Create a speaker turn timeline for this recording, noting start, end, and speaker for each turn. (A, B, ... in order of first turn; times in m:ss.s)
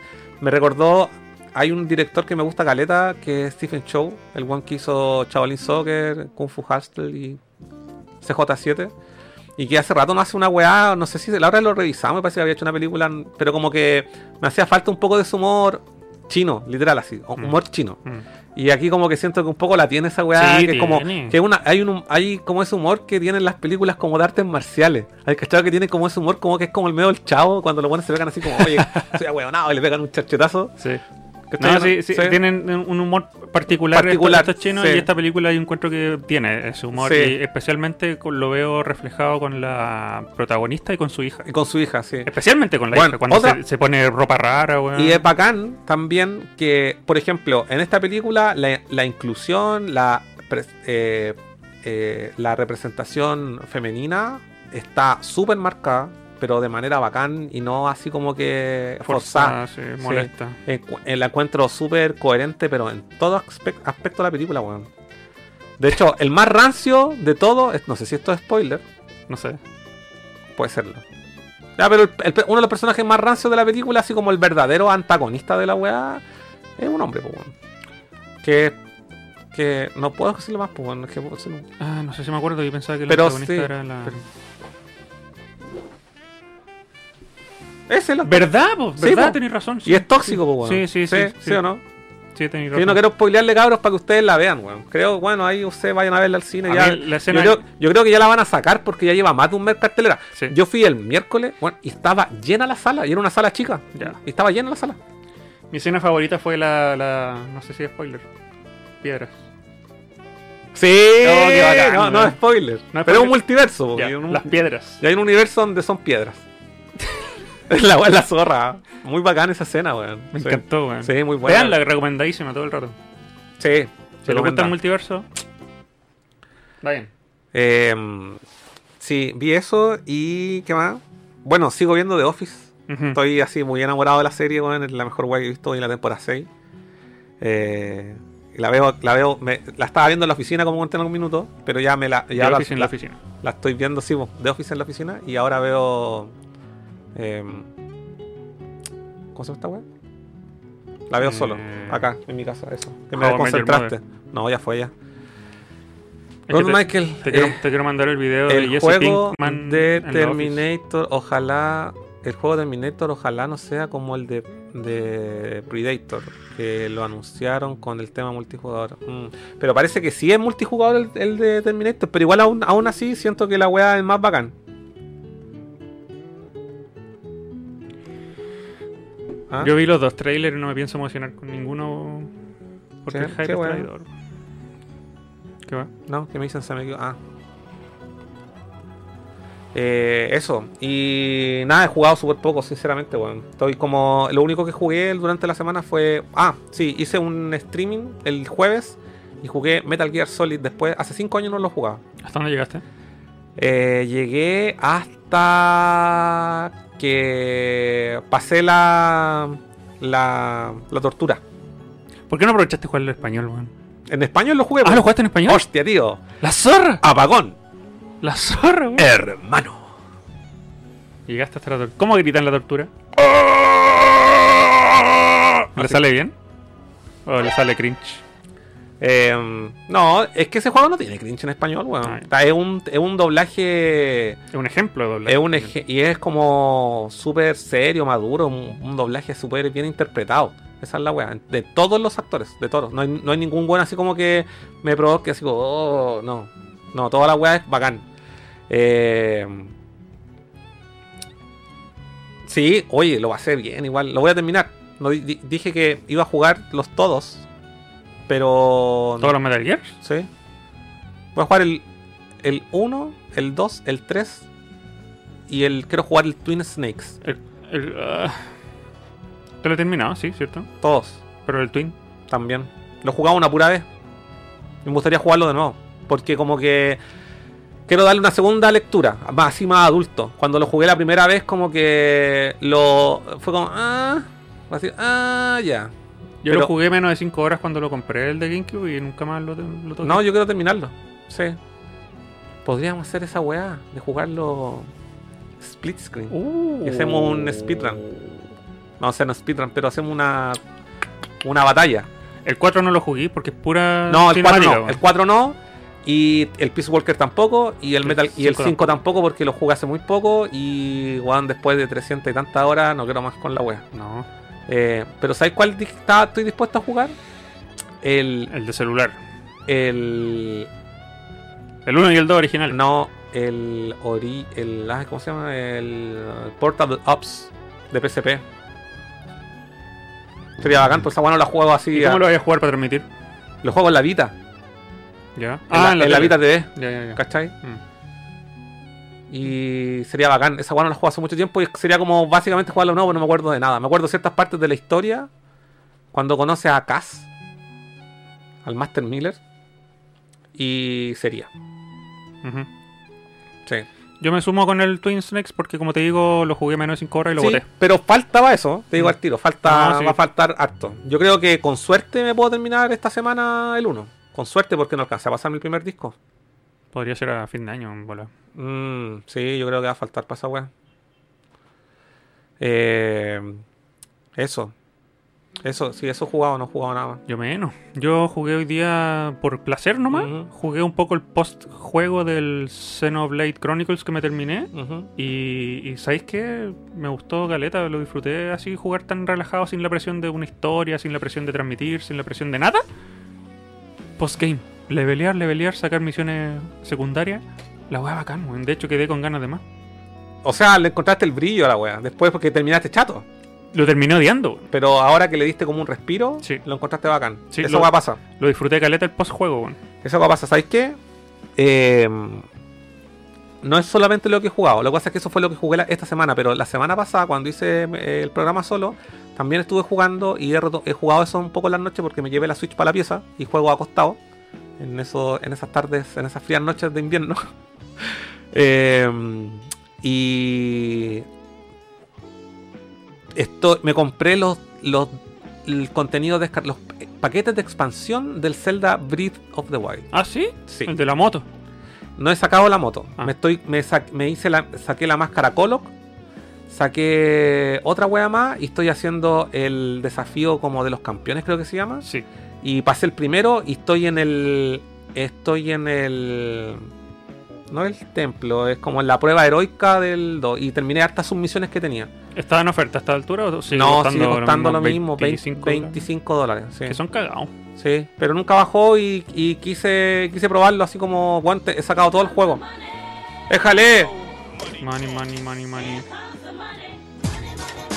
0:00.4-0:07.4 A
0:08.2-0:08.9 A
0:09.6-0:18.0 A
0:17.4-0:18.2 B
0:18.6-0:30.8 A
0:20.4-0:21.4 B
0:28.5-0:29.2 B
0:31.5-0:32.4 A
0:31.6-0:41.4 B
0:33.9-0:35.1 A
0:37.0-0:37.4 A
0:41.4-0:42.3 A
0:42.2-0:45.2 B
0:42.9-0:43.6 A
0:45.0-1:04.9 A
0:59.0-1:00.6 B
1:05.8-1:08.8 A
1:09.3-1:09.6 B
1:10.6-1:11.0 A
1:11.8-1:16.2 A
1:16.8-1:17.5 A
1:18.4-1:18.8 A
1:19.5-1:21.7 A
1:21.8-1:24.2 B
1:23.1-1:24.2 A
1:27.9-1:31.8 A
1:28.2-1:31.6 B
1:32.4-1:33.0 B
1:32.7-1:45.0 A
1:36.6-1:37.6 B
1:45.7-1:48.2 B
1:49.0-1:49.4 B
1:50.7-1:56.4 A
1:51.2-1:52.4 B
1:52.9-1:55.0 B
1:57.7-2:01.8 A
2:00.3-2:03.0 B
2:03.6-2:04.8 A
2:04.3-2:05.3 B
2:06.8-2:07.1 B
2:07.5-2:08.4 A
2:09.0-2:16.5 A
2:12.9-2:13.2 B
2:17.4-2:26.3 A
2:22.3-2:23.2 B
2:27.2-2:27.7 A
2:29.4-2:29.8 A
2:31.1-2:34.9 A
2:31.2-2:32.1 B
2:33.1-2:34.0 B
2:36.5-2:40.6 B
2:36.5-2:37.6 A
2:38.5-2:54.6 A
2:59.6-3:02.3 B
3:03.0-3:04.1 B
3:03.1-3:03.9 A
3:06.1-3:07.2 A
3:09.7-3:22.0 A
3:22.2-3:22.8 B
3:23.6-3:31.4 A
3:32.3-3:33.7 B
3:34.1-3:36.2 A
3:34.8-3:35.6 B
3:36.4-3:37.0 B
3:37.0-3:37.6 A
3:38.2-3:39.1 B
3:39.0-3:39.9 A
3:41.3-3:42.9 B
3:43.2-3:46.0 A
3:45.8-3:46.3 B
3:47.3-3:48.2 B
3:49.0-3:54.4 A
3:52.0-3:52.3 B
3:54.5-3:55.7 B
3:55.3-4:08.1 A
4:08.7-4:09.7 A
4:12.4-4:17.5 A
4:18.3-4:19.4 A
4:19.2-4:20.0 B
4:20.0-4:20.3 A
4:21.4-4:21.8 A
4:22.4-4:24.5 A
4:25.5-4:27.2 A
4:27.2-4:28.4 B
4:29.6-4:30.7 B
4:30.8-4:31.2 A
4:31.4-4:32.0 B
4:32.3-4:33.9 A
4:34.8-4:37.0 A
4:37.9-4:45.9 A
4:46.4-4:50.2 B
4:50.0-4:51.6 A
4:52.6-4:54.9 A
4:55.6-4:58.1 A
4:56.3-4:58.1 B
4:59.0-5:00.6 A
5:01.4-5:02.1 A
5:02.4-5:05.0 B
5:04.1-5:13.8 A
5:08.0-5:09.0 B
5:13.9-5:14.3 B
5:14.7-5:17.2 A
5:18.0-5:18.5 A
5:18.5-5:19.2 B
5:19.7-5:20.7 A
5:21.9-5:22.8 B
5:22.7-5:28.4 A
5:30.6-5:32.2 A
5:31.9-5:33.1 B
5:33.6-5:34.4 A
5:35.4-5:37.8 B
5:35.7-5:37.5 A
5:39.3-5:45.3 A
5:46.1-5:47.3 A
5:48.6-5:49.4 A
5:50.6-5:51.5 A
5:52.4-5:52.7 B
5:54.2-5:57.7 B
5:57.4-6:06.2 A
5:59.0-6:00.2 B
6:06.9-6:08.3 B
6:08.6-6:10.7 A
6:12.6-6:13.6 A
6:14.4-6:14.7 A
6:15.6-6:17.2 A
6:17.3-6:32.8 B
6:20.1-6:20.5 A
6:24.7-6:25.1 A
6:34.2-6:39.6 B
6:40.4-6:43.2 A
6:43.7-6:44.7 B
6:44.7-6:48.2 A
6:47.5-6:49.8 B
6:50.0-6:51.0 A
6:51.6-6:52.5 A
6:53.6-7:04.2 A
7:04.8-7:07.4 A
7:08.0-7:11.3 A
7:13.3-7:20.1 A
7:20.1-7:21.4 B
7:22.2-7:25.9 A
7:26.7-7:32.1 A
7:32.6-7:36.9 A
7:37.7-7:42.1 A
7:42.4-7:46.0 B
7:43.7-7:47.0 A
7:46.9-7:47.5 B
7:47.8-7:52.6 A
7:53.5-7:54.2 A
7:54.8-7:56.1 B